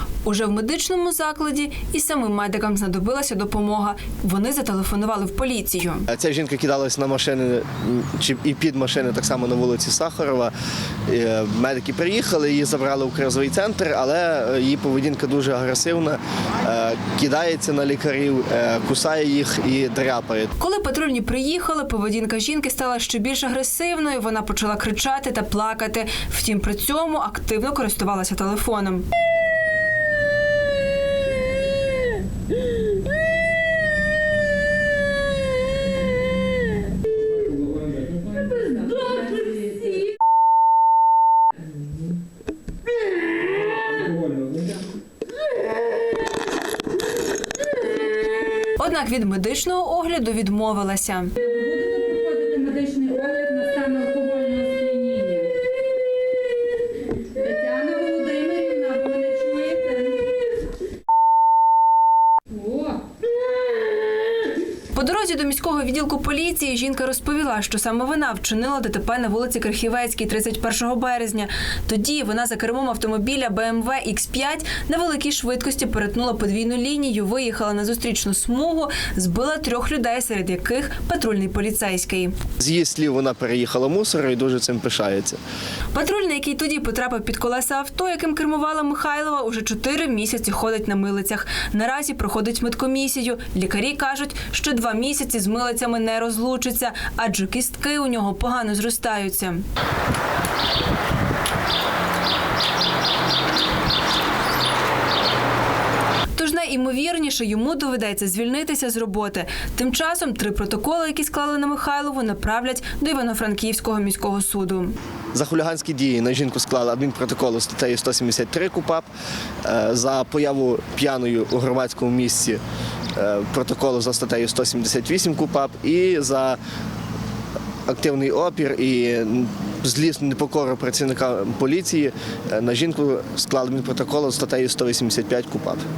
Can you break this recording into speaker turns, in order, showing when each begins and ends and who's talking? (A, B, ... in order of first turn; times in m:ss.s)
0:00.2-0:06.1 A
0:06.1-0:10.5 B
0:11.1-0:20.5 B
0:20.6-0:29.0 A
0:38.2-0:40.0 C
0:48.8-0:51.4 A
0:51.4-0:55.5 C
0:57.3-1:00.3 C
1:02.5-1:03.0 C
1:04.9-1:22.4 A
1:22.6-1:25.4 B
1:25.9-1:39.6 A
1:46.4-1:55.0 A
1:55.3-1:59.1 B
1:59.6-2:02.6 B
2:03.2-2:06.6 B
2:07.9-2:15.8 B